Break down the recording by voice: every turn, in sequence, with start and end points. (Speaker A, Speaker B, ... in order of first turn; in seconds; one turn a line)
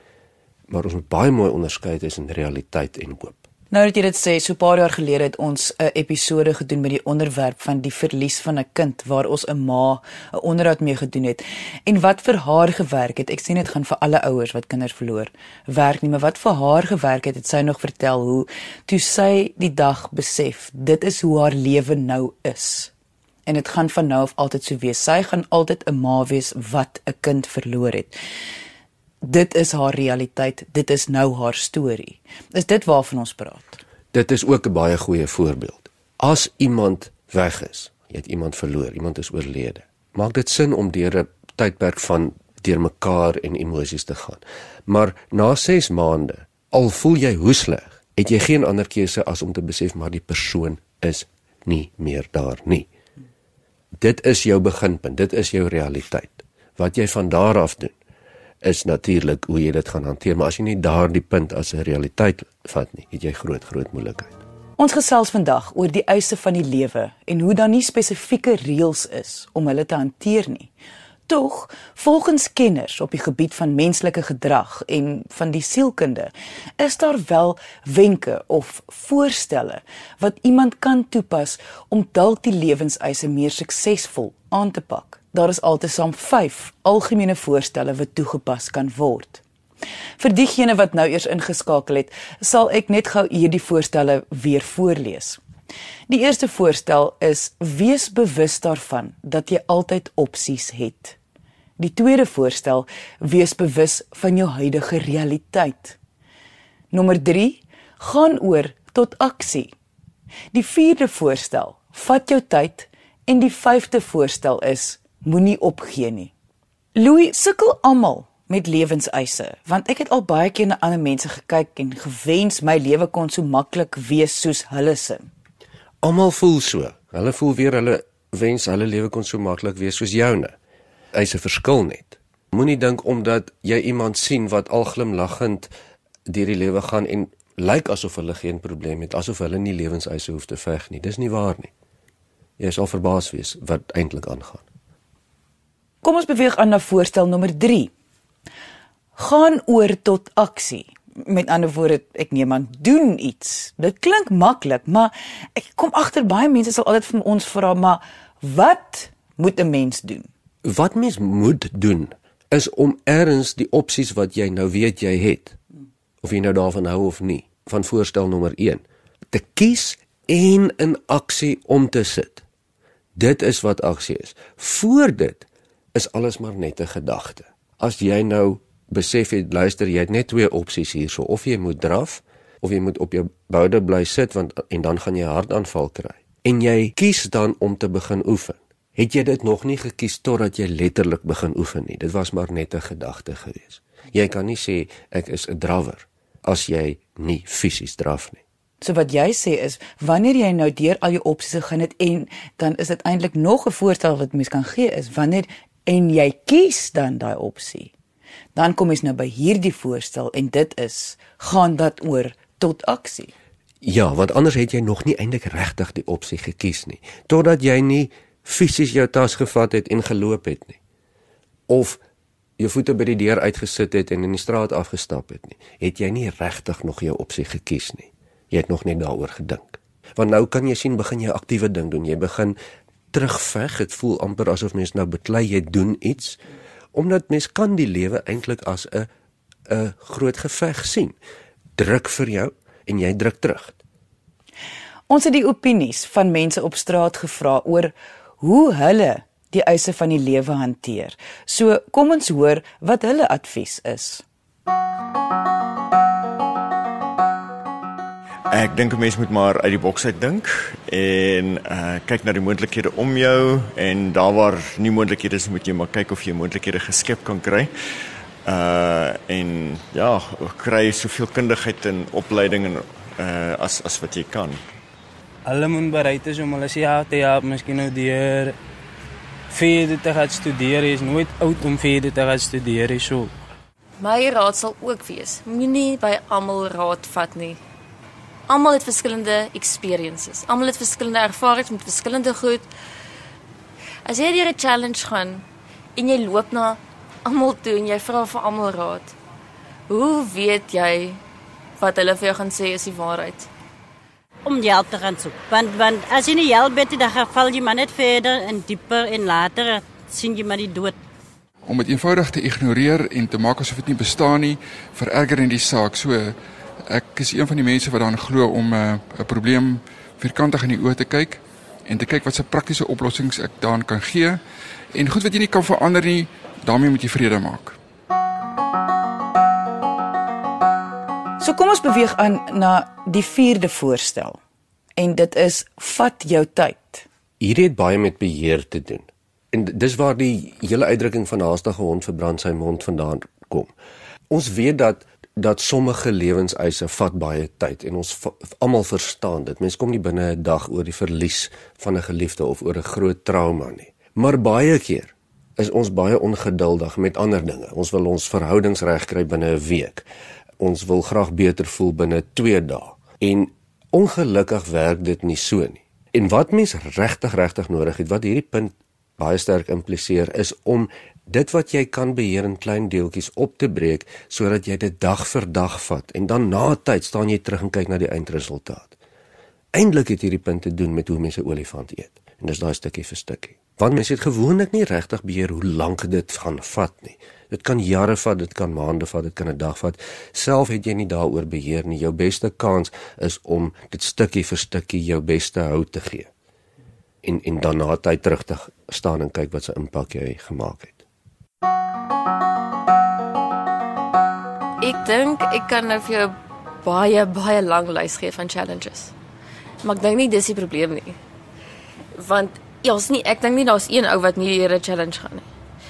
Speaker A: 0.7-3.4
Speaker B: 3.7-22.9
Speaker B: 23.4-28.2
Speaker B: 29.2-33.8
Speaker A: 34.1-52.9
Speaker A: 54.0-57.9
Speaker A: 58.6-64.4
Speaker B: 64.8-70.7
Speaker B: 71.3-89.4
Speaker B: 90.2-95.4
Speaker B: 96.1-101.2
Speaker B: 101.8-106.0
Speaker B: 106.9-109.7
Speaker B: 110.5-116.3
Speaker B: 116.9-125.3
Speaker A: 126.0-130.6
Speaker A: 131.1-135.7
Speaker A: 136.3-141.7
Speaker A: 142.6-144.7
Speaker B: 146.0-147.9
Speaker B: 149.2-160.3
Speaker A: 160.6-165.6
Speaker A: 166.2-172.4
Speaker A: 173.1-198.4
Speaker B: 198.8-207.9
Speaker B: 208.5-213.3
Speaker A: 213.8-220.8
Speaker A: 221.7-222.0
Speaker A: 222.6-232.6
Speaker A: 233.1-236.4
Speaker A: 236.9-239.1
Speaker A: 239.7-241.2
Speaker A: 241.8-243.8
Speaker B: 245.1-254.2
Speaker C: 258.5-267.7
Speaker C: 268.4-274.6
Speaker D: 275.4-278.6
Speaker D: 279.5-283.4
Speaker E: 284.0-287.6
Speaker E: 288.5-292.7
Speaker E: 294.0-295.4
Speaker E: 295.9-299.1
Speaker E: 299.9-301.2
Speaker E: 301.8-303.5
Speaker F: 304.4-310.9
Speaker G: 311.6-324.4
Speaker G: 324.9-327.8
Speaker B: 331.4-334.4
Speaker B: 335.0-337.1
Speaker A: 337.4-343.7
Speaker A: 344.3-360.1
Speaker A: 360.6-378.9
Speaker A: 379.7-396.3
Speaker A: 397.2-401.0
Speaker E: 404.8-409.1
Speaker E: 409.8-411.2
Speaker E: 412.1-415.4